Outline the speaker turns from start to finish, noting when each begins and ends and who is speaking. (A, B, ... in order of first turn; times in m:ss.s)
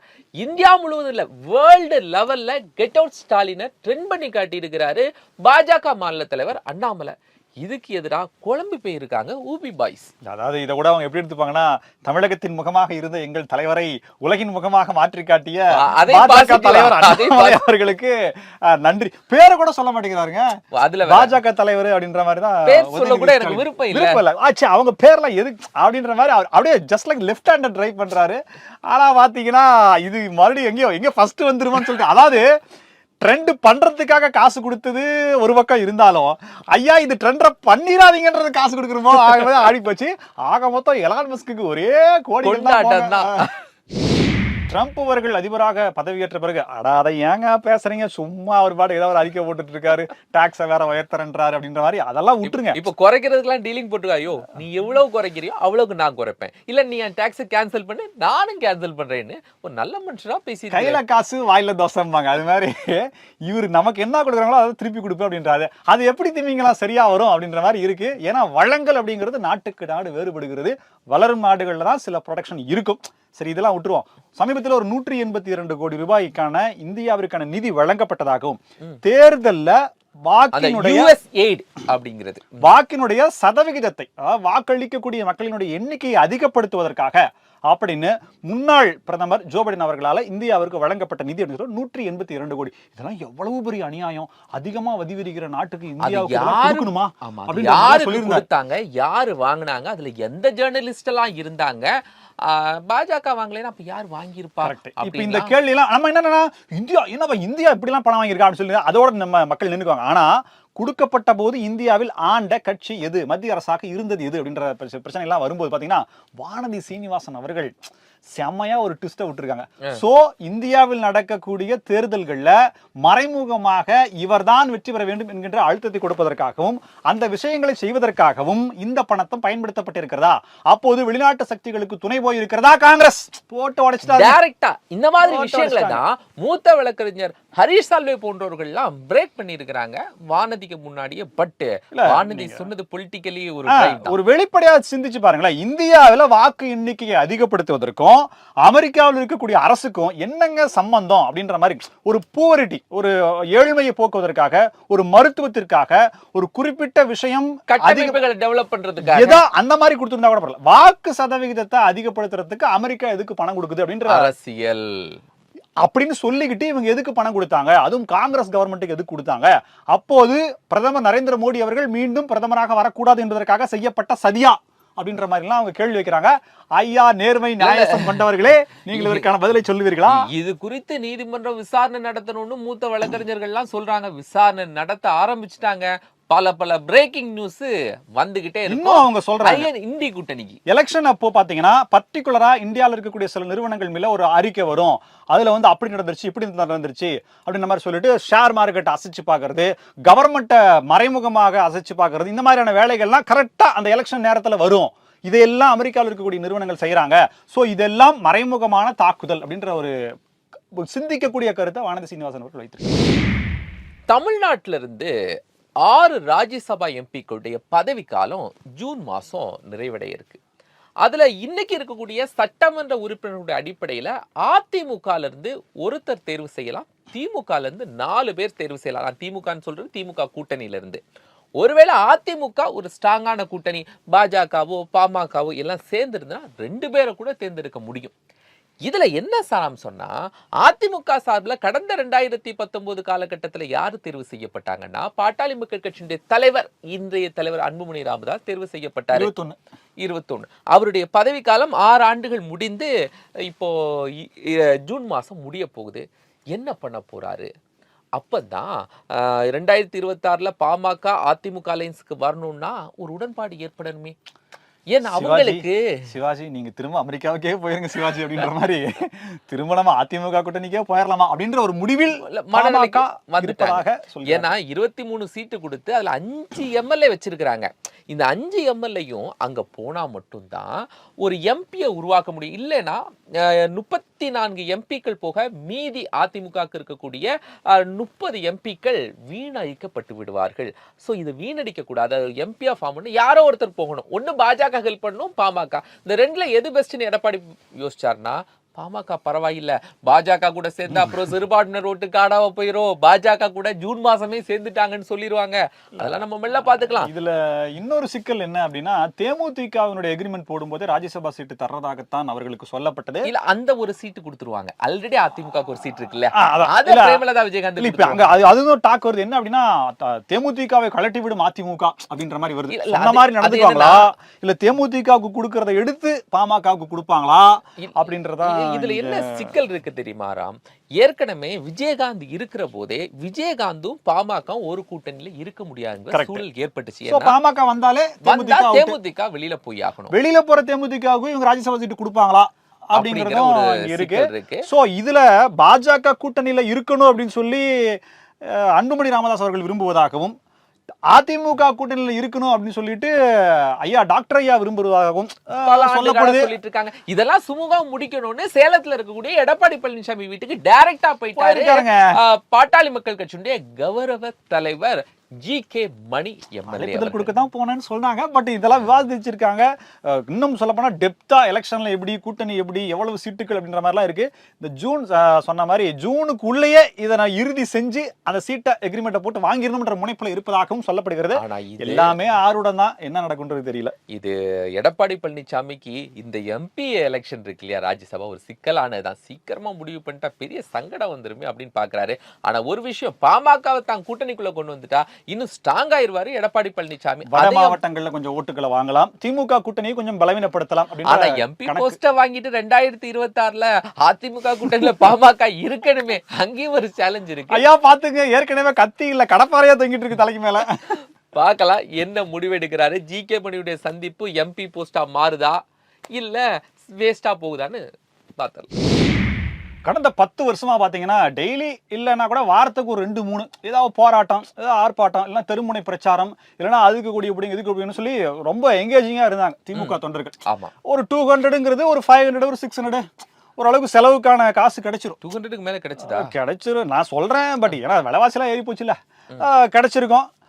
0:00.4-0:10.1 A
0:10.2-0:20.5 B
0:15.8-0:17.6 A
0:20.7-0:21.4 A
0:21.0-0:32.4 B
0:22.6-0:24.2 A
0:33.2-0:43.4 B
0:42.4-0:43.6 A
0:44.7-0:52.8 B
0:52.4-1:01.0 A
1:00.7-1:19.8 B
1:20.3-1:21.2 B
1:20.5-1:22.7 A
1:22.6-1:38.5 B
1:36.0-1:41.9 A
1:42.5-1:45.5 A
1:44.6-1:57.7 B
1:58.3-2:14.4 B
2:14.0-2:24.2 A
2:15.2-2:16.0 B
2:21.9-2:22.7 B
2:23.7-2:38.2 B
2:37.7-2:39.4 A
2:39.0-2:44.3 B
2:44.1-2:45.2 A
2:45.8-3:00.2 B
2:57.6-2:58.3 A
2:58.9-2:59.3 A
3:00.1-3:10.6 A
3:08.7-3:09.7 B
3:10.7-3:29.9 B
3:30.8-3:32.9 B
3:34.1-3:35.1 A
3:35.9-3:40.4 A
3:41.0-3:51.0 A
3:51.6-3:58.1 A
3:58.9-4:09.3 A
4:09.1-4:09.6 B
4:10.0-4:12.9 A
4:13.5-4:17.5 A
4:18.2-4:24.2 A
4:24.9-4:25.8 A
4:25.0-4:34.5 B
4:32.1-5:07.1 A
5:00.9-5:01.2 B
5:06.0-5:13.3 B
5:13.2-5:18.3 A
5:16.3-5:17.2 B
5:17.8-5:29.6 B
5:22.7-5:24.1 A
5:27.8-5:37.4 A
5:36.1-5:36.4 B
5:37.1-5:39.0 B
5:38.2-5:40.1 A
5:40.1-5:47.7 B
5:42.9-5:44.7 A
5:48.4-5:50.3 B
5:51.1-5:56.5 B
5:55.6-6:07.4 A
6:01.4-6:02.1 B
6:06.7-6:23.9 B
6:21.3-6:22.2 A
6:24.1-6:37.8 A
6:37.3-6:42.0 B
6:41.0-6:47.6 A
6:47.5-6:51.0 B
6:51.3-6:55.6 A
6:56.1-6:57.8 A
6:58.4-6:58.7 A
6:59.9-7:13.0 B
7:09.7-7:10.7 A
7:13.6-7:15.2 B
7:15.2-7:16.3 A
7:16.0-7:20.3 B